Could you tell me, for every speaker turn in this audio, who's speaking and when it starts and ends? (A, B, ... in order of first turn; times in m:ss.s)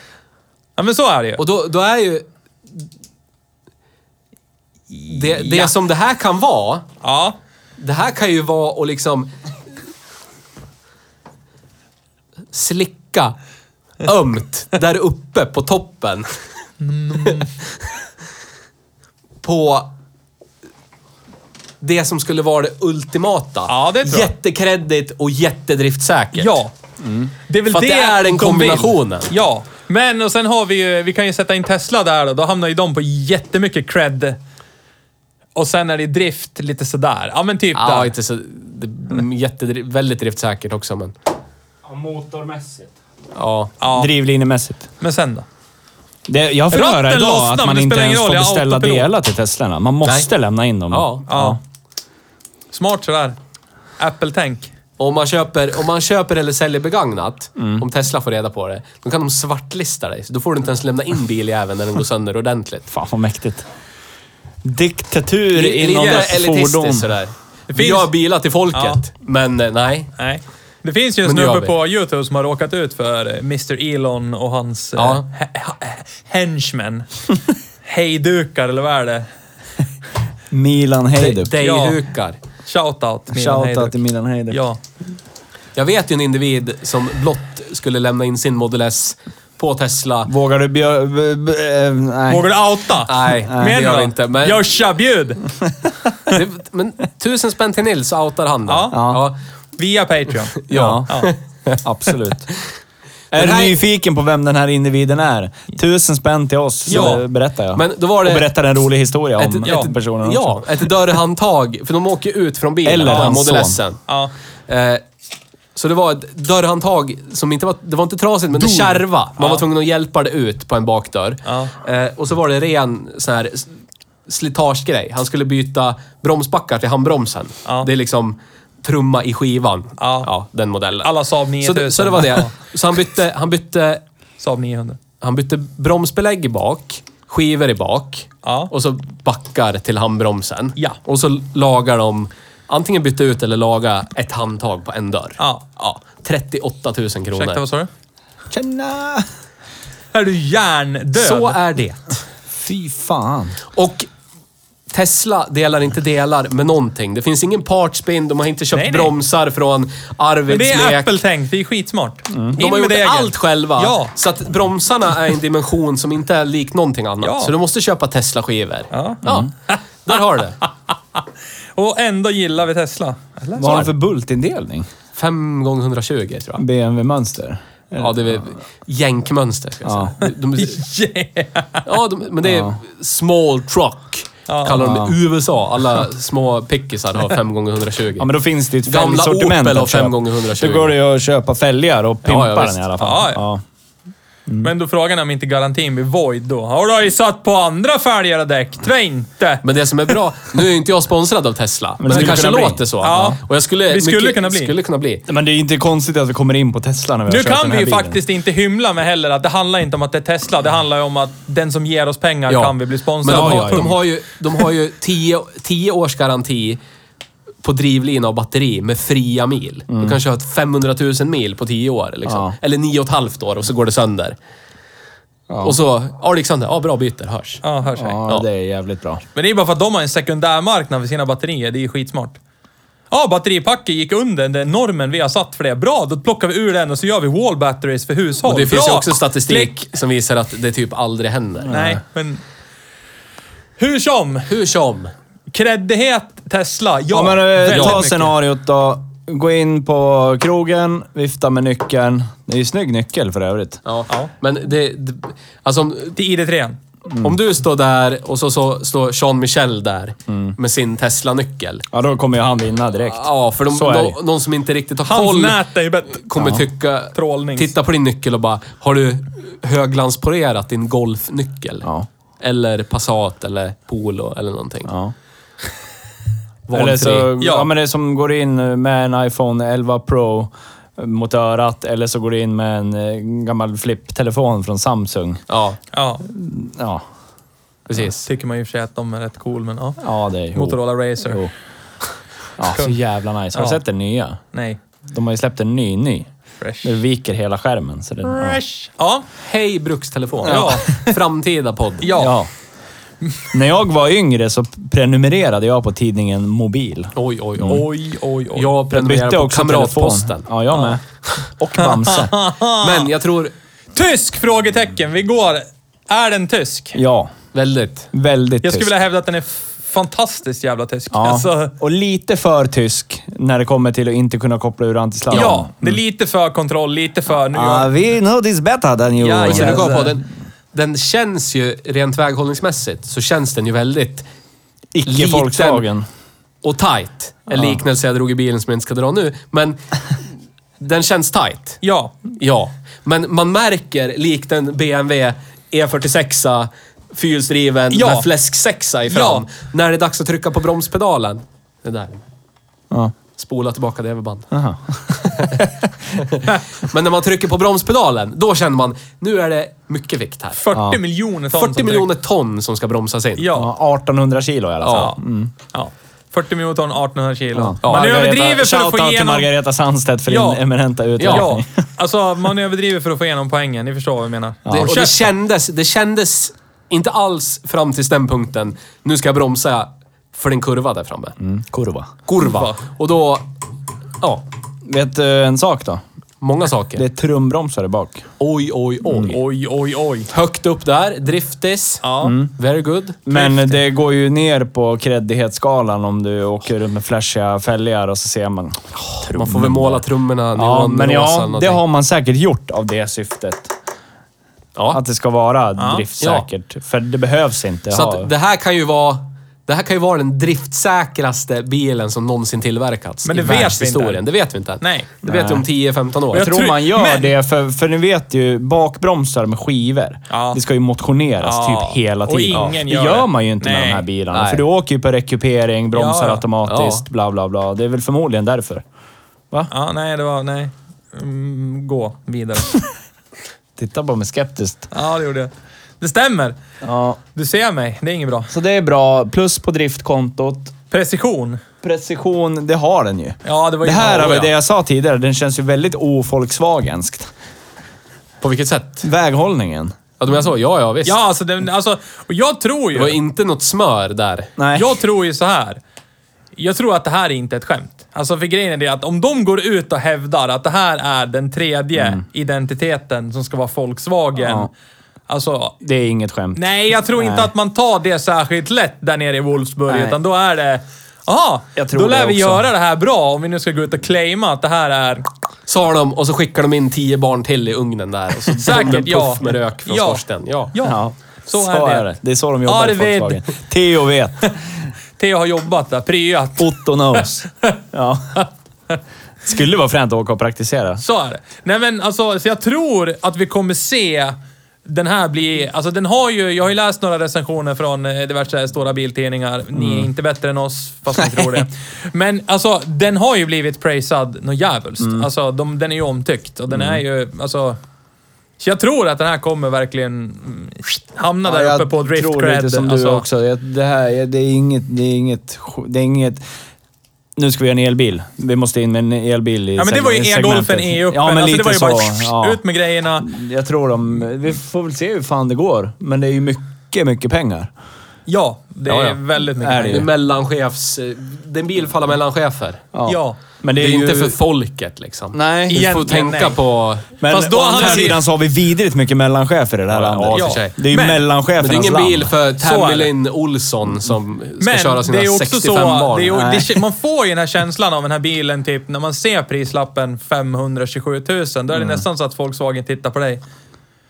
0:00.8-0:01.4 A
0:01.4-0:02.3 B
0:04.9-0:05.7 A
0:05.1-0:06.9 B
0:07.0-0:07.4 A
0:07.8-0:09.3 B
0:12.5-0:13.4 B
0:14.0-0:16.3 B
0:16.8-0:17.5 A
0:17.2-0:17.5 B
0:19.4-0:19.9 B
0:21.8-0:26.6 B
0:23.7-0:24.3 A
0:26.4-0:26.7 A
0:27.0-0:27.3 C
0:27.5-0:34.4 A
0:27.7-0:29.3 B
0:35.6-0:38.1 A
0:37.8-0:41.1 B
0:41.8-0:42.9 C
0:43.4-0:43.7 B
0:43.8-0:44.1 A
0:43.9-0:44.9 C
0:45.0-0:45.5 A
0:46.3-0:51.6 C
0:46.7-0:49.1 A
0:50.0-0:50.3 B
0:50.9-0:51.2 B
0:51.3-0:51.6 A
0:52.7-0:53.4 A
0:54.0-0:54.7 A
0:55.0-1:02.9 B
0:57.6-0:57.8 C
1:02.9-1:03.7 C
1:04.6-1:07.1 C
1:05.5-1:10.1 B
1:05.9-1:06.3 A
1:07.7-1:08.1 A
1:08.7-1:09.0 A
1:10.2-1:17.1 A
1:11.2-1:11.7 B
1:15.0-1:15.3 B
1:17.8-1:19.3 A
1:20.5-1:21.5 C
1:21.2-1:22.4 B
1:21.6-1:22.0 A
1:22.7-1:24.0 A
1:23.3-1:24.6 C
1:24.5-1:24.8 A
1:25.8-1:30.3 B
1:30.3-1:32.5 C
1:32.3-1:35.5 A
1:33.1-1:34.6 B
1:33.5-1:33.8 C
1:36.3-1:39.4 B
1:38.7-1:39.2 A
1:38.9-1:39.2 C
1:39.8-1:41.3 A
1:40.6-1:41.8 B
1:40.7-1:41.1 C
1:41.8-1:42.5 C
1:43.3-1:43.8 B
1:43.3-1:50.9 C
1:46.9-1:48.5 B
1:46.9-1:47.2 A
1:49.4-1:54.0 B
1:49.6-1:49.9 A
1:52.8-1:53.8 C
1:53.1-1:53.5 A
1:54.7-1:55.0 B
1:55.8-2:03.7 B
1:59.4-1:59.6 A
2:01.5-2:01.7 A
2:04.3-2:11.1 B
2:10.0-2:10.3 A
2:11.0-2:12.5 A
2:11.6-2:14.0 B
2:14.4-2:15.0 A
2:15.2-2:27.6 B
2:18.4-2:18.7 A
2:25.4-2:25.8 A
2:27.4-2:27.9 A
2:28.5-2:29.3 C
2:30.1-2:31.6 A
2:31.2-2:32.2 B
2:32.5-2:33.6 C
2:33.7-2:34.1 B
2:34.9-2:41.1 B
2:38.7-2:39.1 A
2:40.5-2:44.1 A
2:42.5-2:49.5 B
2:47.2-2:47.5 A
2:48.9-2:50.6 A
2:50.0-2:50.6 B
2:51.8-2:53.9 A
2:53.6-2:54.9 C
2:55.2-2:56.6 B
2:56.6-2:58.4 C
2:58.0-3:00.8 B
2:59.8-3:00.1 C
3:00.2-3:01.8 A
3:01.8-3:08.3 B
3:02.4-3:02.8 C
3:04.5-3:04.8 A
3:04.8-3:05.2 C
3:08.2-3:13.6 C
3:08.9-3:11.0 B
3:12.2-3:12.8 B
3:13.0-3:13.4 A
3:14.6-3:19.6 A
3:19.6-3:25.2 B
3:22.0-3:23.3 C
3:23.0-3:24.7 A
3:25.3-3:28.2 C
3:27.3-3:33.9 A
3:32.5-3:36.8 B
3:33.2-3:34.0 C
3:37.6-3:44.4 B
3:39.9-3:40.2 C
3:42.3-3:42.6 C
3:45.5-3:45.8 C
3:45.6-3:47.6 B
3:47.6-3:48.2 A
3:48.0-3:49.2 C
3:49.4-3:52.4 A
3:53.1-3:59.7 A
3:58.4-4:01.8 B
4:01.7-4:02.0 C
4:01.7-4:02.4 A
4:03.8-4:04.5 A
4:04.5-4:05.1 B
4:05.5-4:08.3 A
4:07.1-4:13.8 C
4:07.6-4:08.2 B
4:13.8-4:16.2 B
4:16.2-4:16.8 A
4:17.1-4:17.4 C
4:17.2-4:21.9 B
4:20.3-4:20.6 C
4:21.9-4:24.2 C
4:23.1-4:25.6 B
4:25.1-4:26.2 A
4:26.1-4:31.9 B
4:27.1-4:27.7 A
4:32.4-4:34.9 B
4:34.9-4:35.1 C
4:36.7-4:37.4 B
4:36.7-4:45.4 C
4:37.4-4:37.7 A
4:45.5-4:45.8 B
4:45.9-4:46.2 A
4:46.2-4:47.0 C
4:47.9-4:48.3 B
4:48.0-4:50.0 A
4:50.0-4:51.5 C
4:50.5-4:51.4 A
4:52.6-4:54.4 C
4:52.7-4:53.0 A
4:53.5-4:53.8 A
4:54.5-4:54.8 A
4:55.1-4:56.3 C
4:56.6-4:57.0 A
4:56.8-4:58.6 C
4:58.2-4:59.2 A
4:59.4-5:02.2 B
5:00.4-5:01.2 A
5:00.5-5:00.8 C
5:02.0-5:02.4 A
5:02.2-5:02.5 C
5:03.5-5:07.8 C
5:07.2-5:07.9 B
5:07.7-5:08.8 A
5:08.5-5:10.5 B
5:08.9-5:12.3 C
5:10.7-5:11.0 A
5:11.8-5:13.1 A
5:12.8-5:13.5 B
5:13.9-5:17.0 A
5:16.9-5:17.3 C
5:17.5-5:18.1 B
5:18.1-5:18.9 C
5:18.6-5:21.7 A
5:21.1-5:26.0 C
5:25.3-5:27.9 A
5:27.5-5:30.0 C
5:29.2-5:30.2 A
5:29.4-5:34.3 B
5:34.9-5:36.1 C
5:35.0-5:35.9 B
5:36.6-5:40.2 B
5:37.5-5:37.8 C
5:40.8-5:52.2 B
5:41.8-5:42.2 A
5:47.9-5:48.3 A
5:49.1-5:49.4 A
5:53.4-5:54.5 B
5:54.5-5:55.7 C
5:55.1-6:00.6 B
6:00.6-6:02.1 A
6:00.7-6:01.0 C
6:01.5-6:03.5 B
6:03.4-6:03.7 A
6:03.5-6:05.5 C
6:04.8-6:05.1 B
6:04.9-6:05.2 A
6:05.7-6:09.5 A
6:07.5-6:11.7 C
6:07.8-6:08.5 B
6:10.3-6:10.6 A
6:11.2-6:11.5 B
6:11.2-6:15.3 A
6:14.7-6:14.9 C
6:14.7-6:21.4 B
6:21.4-6:22.1 C
6:22.3-6:23.5 B
6:22.4-6:22.8 A
6:24.2-6:24.5 B
6:24.9-6:26.0 C
6:26.4-6:27.0 B
6:27.0-6:28.3 C
6:28.4-6:29.4 B
6:29.1-6:29.4 C
6:29.3-6:30.3 A
6:30.3-6:33.2 B
6:32.0-6:32.4 A
6:32.2-6:32.5 C
6:33.3-6:40.0 C
6:33.3-6:33.8 A
6:39.2-6:41.8 B
6:40.6-6:43.7 C
6:44.9-6:48.3 C
6:45.8-6:46.0 A
6:46.2-6:46.5 B
6:47.9-6:56.5 B
6:53.3-6:54.2 A
6:54.8-6:55.1 A
6:55.2-6:55.7 C
6:56.3-6:57.3 A
6:56.3-7:08.8 C
7:00.3-7:00.6 A
7:01.4-7:04.1 A
7:02.5-7:02.8 B
7:04.3-7:04.6 B
7:05.9-7:06.4 A
7:06.7-7:07.0 B
7:09.7-7:12.8 A
7:13.8-7:14.9 C
7:14.9-7:16.6 A
7:16.8-7:17.2 C
7:17.4-7:18.5 A
7:18.5-7:20.7 C
7:20.9-7:21.6 A
7:21.8-7:27.3 C
7:23.4-7:24.5 A
7:28.4-7:29.1 B
7:29.0-7:30.0 C
7:30.2-7:31.2 B
7:31.0-7:33.2 A
7:32.9-7:34.5 B
7:34.6-7:35.0 C
7:34.8-7:35.8 A
7:36.6-7:44.7 A
7:42.0-7:42.2 C
7:44.4-7:44.7 C
7:45.3-7:45.8 A
7:45.8-7:47.5 C
7:46.6-7:55.3 A
7:49.9-7:50.2 C
7:51.8-7:52.7 C
7:55.7-8:00.7 B
7:58.6-8:02.1 A
8:00.8-8:04.6 C
8:02.6-8:03.4 A
8:05.2-8:07.3 A
8:06.6-8:08.5 C
8:09.4-8:11.0 C
8:11.0-8:27.8 A
8:19.7-8:20.1 C
8:21.2-8:21.7 C
8:25.0-8:25.3 C
8:26.7-8:27.0 C
8:28.6-8:33.2 A
8:31.4-8:36.4 C
8:37.4-8:42.6 C
8:39.8-8:43.3 A
8:43.2-8:47.7 C
8:48.3-8:50.1 A
8:48.9-8:49.2 B
8:49.6-8:50.1 C
8:49.9-8:52.8 B
8:52.9-8:54.4 C
8:53.1-8:53.4 A
8:53.8-8:58.2 B
8:55.3-8:55.9 C
8:55.7-8:56.6 A
8:57.2-9:02.3 C
8:57.2-8:58.2 A
8:59.9-9:00.8 B
9:00.3-9:01.2 A
9:01.6-9:06.4 B
9:02.6-9:03.1 A
9:04.6-9:13.4 A
9:06.3-9:06.8 C
9:11.8-9:12.0 C